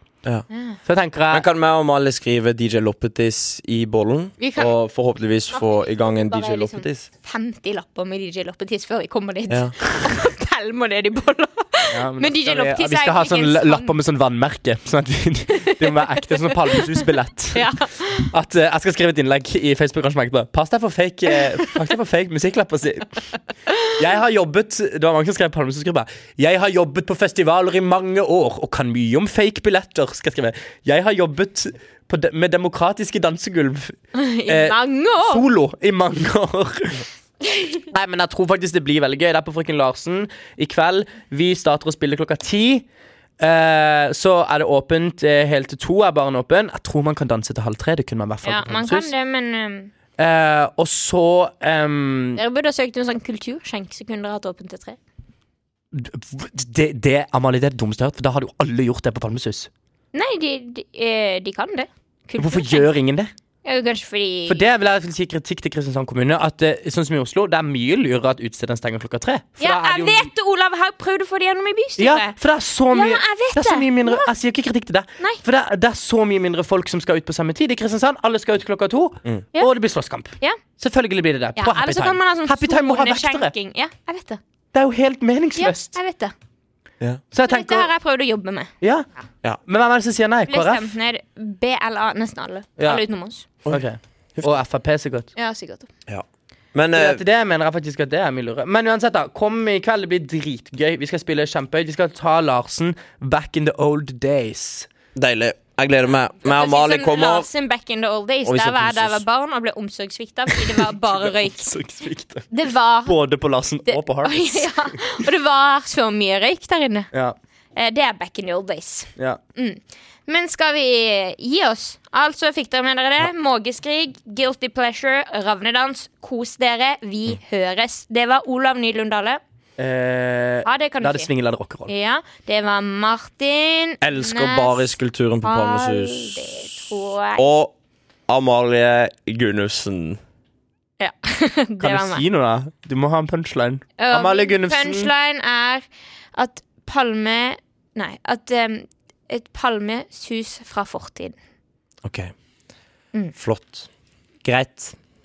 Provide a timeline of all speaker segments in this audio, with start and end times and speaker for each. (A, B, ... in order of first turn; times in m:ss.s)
0:00.5-0:00.8 A
0:00.8-0:01.4 B
0:01.3-0:07.1 C
0:04.4-0:04.7 A
0:05.5-0:13.9 A
0:09.5-0:09.7 C
0:11.9-0:17.8 B
0:15.6-0:16.9 A
0:17.5-0:18.3 A
0:18.3-0:23.2 B
0:23.9-0:37.0 B
0:34.1-0:35.4 A
0:37.5-0:37.8 A
0:37.9-0:42.8 B
0:43.4-0:49.1 B
0:48.4-0:49.9 A
0:50.2-0:52.4 B
0:52.4-0:55.0 A
0:55.9-0:59.7 B
1:00.1-1:02.9 A
1:02.4-1:03.3 B
1:03.6-1:04.6 A
1:04.5-1:10.3 B
1:09.6-1:12.3 A
1:12.0-1:23.5 B
1:12.9-1:14.3 A
1:21.6-1:24.4 A
1:24.7-1:26.0 B
1:25.6-1:26.3 A
1:27.3-1:27.9 B
1:27.4-1:28.7 A
1:28.8-1:29.1 B
1:29.6-1:30.9 B
1:30.5-1:33.4 A
1:32.8-1:33.0 B
1:33.6-1:35.3 B
1:35.4-1:35.9 A
1:36.1-1:37.2 C
1:36.9-1:44.9 B
1:45.1-1:47.5 C
1:46.4-1:51.7 A
1:48.4-1:49.2 C
1:50.5-1:52.5 B
1:52.5-1:53.2 A
1:53.0-1:55.0 B
1:53.8-1:57.1 A
1:57.8-2:09.4 A
2:09.8-2:11.9 B
2:10.6-2:11.3 A
2:11.9-2:17.4 A
2:14.0-2:16.7 C
2:17.3-2:17.7 C
2:18.3-2:20.2 C
2:21.0-2:22.2 A
2:21.8-2:25.1 B
2:24.0-2:31.4 A
2:32.0-2:32.3 C
2:33.4-2:33.9 C
2:34.4-2:34.9 B